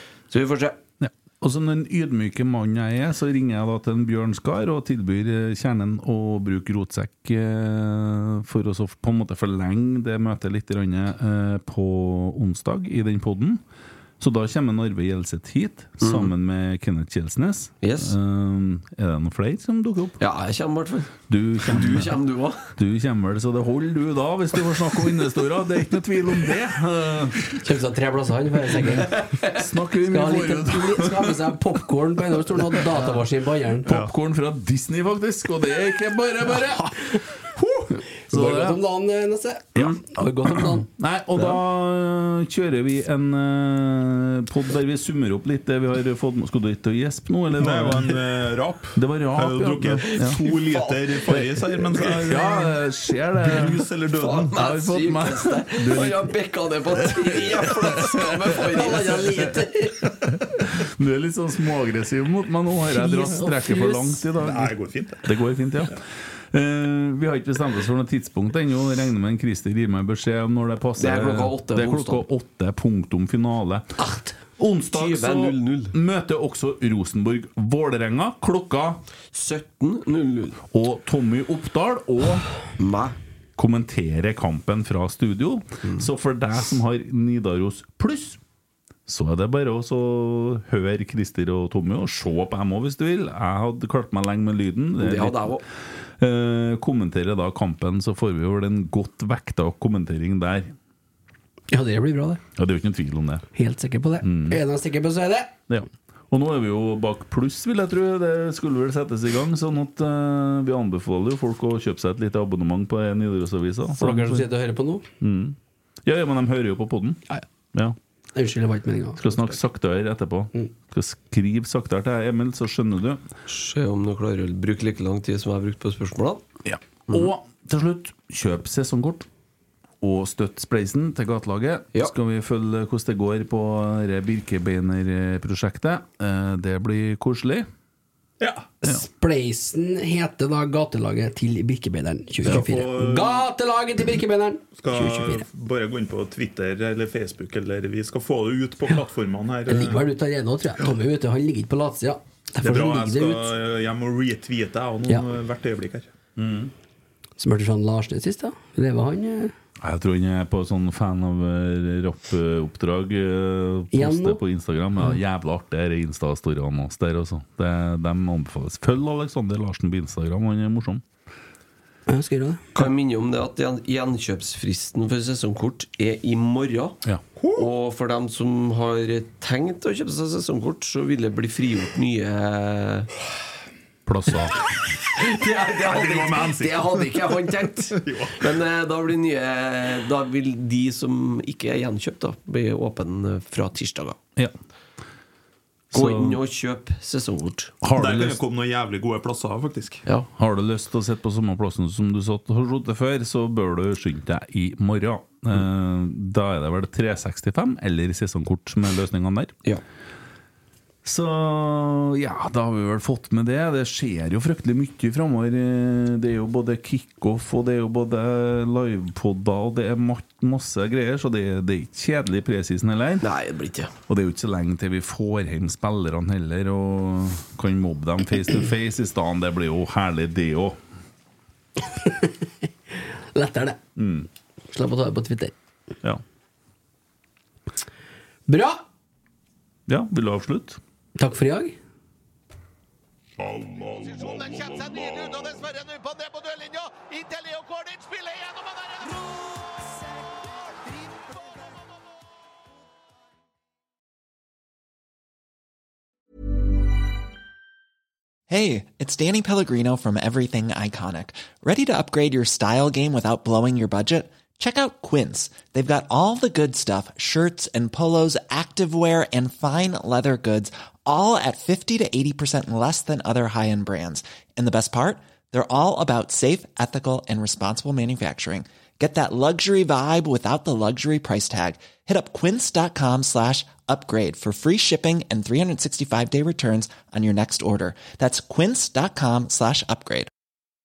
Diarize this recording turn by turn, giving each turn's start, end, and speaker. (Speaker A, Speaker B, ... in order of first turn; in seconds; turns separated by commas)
Speaker A: 0.3-0.8, Speaker B: 1.0-13.6, Speaker B: 14.2-20.2, Speaker A: 16.0-16.3, Speaker A: 17.8-18.1, Speaker A: 20.2-22.7, Speaker B: 21.3-22.2, Speaker B: 22.8-27.6, Speaker C: 27.6-29.1, Speaker B: 29.4-31.5, Speaker C: 30.0-33.9, Speaker B: 33.9-37.2, Speaker C: 38.3-40.9, Speaker B: 38.3-38.8, Speaker B: 39.8-48.2, Speaker D: 47.5-52.8, Speaker B: 49.0-50.8, Speaker B: 52.2-53.8, Speaker D: 53.4-54.6, Speaker A: 54.2-59.6, Speaker B: 54.5-56.4, Speaker C: 58.7-60.1, Speaker B: 60.8-66.0, Speaker C: 62.9-64.2, Speaker D: 64.4-65.3, Speaker B: 66.5-73.9, Speaker A: 71.0-72.2, Speaker B: 74.6-79.0, Speaker A: 74.9-76.0, Speaker A: 79.3-80.6, Speaker B: 80.7-82.5, Speaker A: 82.8-83.2, Speaker B: 83.6-88.4, Speaker B: 89.1-95.6, Speaker A: 95.0-95.6, Speaker B: 96.2-100.7, Speaker C: 101.7-102.4, Speaker B: 102.6-103.5, Speaker C: 103.5-105.5, Speaker B: 104.2-104.6, Speaker B: 105.7-114.5, Speaker C: 114.0-115.1, Speaker B: 115.2-117.2, Speaker C: 118.3-119.5, Speaker B: 119.2-123.2, Speaker A: 123.5-126.4, Speaker B: 126.7-129.3, Speaker B: 130.0-137.7, Speaker D: 138.4-138.8, Speaker C: 138.8-145.5, Speaker D: 142.5-143.5, Speaker D: 144.8-150.1, Speaker C: 149.7-153.5, Speaker D: 152.6-156.1, Speaker B: 156.4-156.7, Speaker C: 157.4-159.5, Speaker B: 159.8-171.0, Speaker C: 163.9-164.4, Speaker C: 172.1-172.7, Speaker A: 172.8-177.0, Speaker D: 177.4-177.7, Speaker A: 177.6-183.1, Speaker B: 184.1-184.7, Speaker A: 185.2-194.2, Speaker D: 185.8-187.1, Speaker D: 188.0-188.4, Speaker B: 195.9-196.4, Speaker A: 195.9-197.8, Speaker B: 197.8-198.4, Speaker D: 197.9-200.0, Speaker B: 200.3-209.6, Speaker B: 211.1-223.3, Speaker A: 223.2-223.9, Speaker B: 224.1-230.8, Speaker C: 231.8-232.5, Speaker C: 233.3-233.8, Speaker B: 234.0-234.3, Speaker C: 234.7-235.6, Speaker C: 238.5-238.8, Speaker B: 239.9-240.8, Speaker C: 241.2-241.8, Speaker E: 243.4-251.7, Speaker F: 258.5-290.3